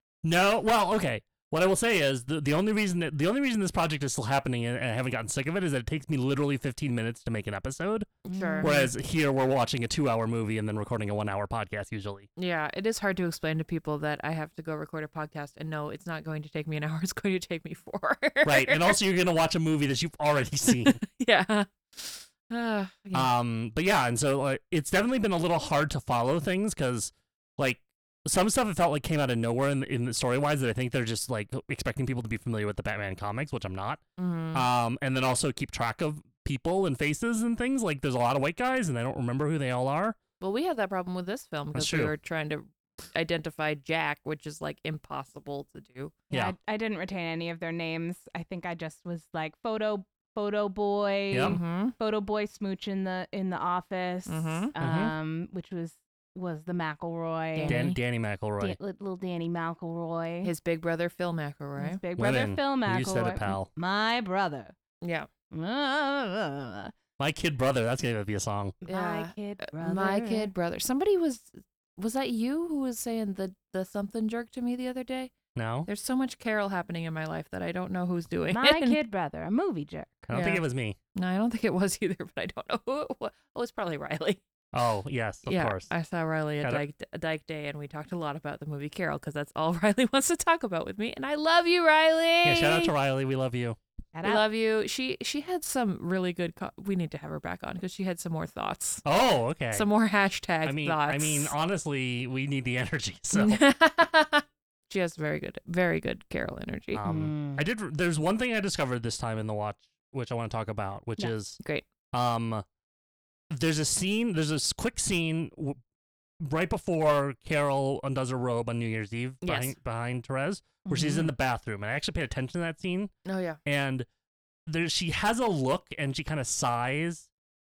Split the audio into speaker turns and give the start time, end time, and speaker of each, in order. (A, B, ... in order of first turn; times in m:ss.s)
0:00.2-0:08.1 A
0:08.2-0:08.7 B
0:08.3-0:08.9 C
0:08.6-0:12.3 A
0:12.4-0:19.0 B
0:18.4-0:21.0 A
0:20.7-0:23.3 B
0:23.1-0:34.0 A
0:34.2-0:34.6 B
0:34.5-0:40.2 A
0:40.4-0:46.1 B
0:41.7-0:42.1 A
0:46.3-0:57.9 C
0:51.3-0:51.6 A
0:51.4-0:51.9 B
0:54.3-0:54.7 B
0:54.8-0:55.1 A
0:57.5-0:58.0 B
0:57.7-0:58.8 A
0:58.6-1:00.5 C
1:00.4-1:02.0 B
1:01.8-1:04.7 C
1:02.2-1:03.7 A
1:05.0-1:05.3 B
1:05.5-1:06.9 C
1:07.2-1:08.8 A
1:08.8-1:10.5 C
1:08.9-1:15.3 B
1:15.5-1:15.9 A
1:15.9-1:19.0 B
1:18.5-1:20.3 C
1:20.3-1:21.0 A
1:20.3-1:20.6 B
1:21.1-1:24.4 B
1:24.7-1:25.9 A
1:25.5-1:32.9 B
1:32.4-1:33.8 A
1:34.1-1:34.4 C
1:34.2-1:39.0 B
1:39.0-1:39.9 A
1:39.7-1:41.5 B
1:40.6-1:43.6 A
1:43.3-1:47.0 B
1:46.9-1:51.6 A
1:47.0-1:47.6 C
1:51.6-1:51.8 B
1:52.1-1:52.6 A
1:53.5-1:55.8 A
1:56.4-2:03.1 A
1:59.4-1:59.7 B
2:00.9-2:01.3 C
2:03.2-2:03.6 B
2:03.6-2:04.1 A
2:04.7-2:07.3 A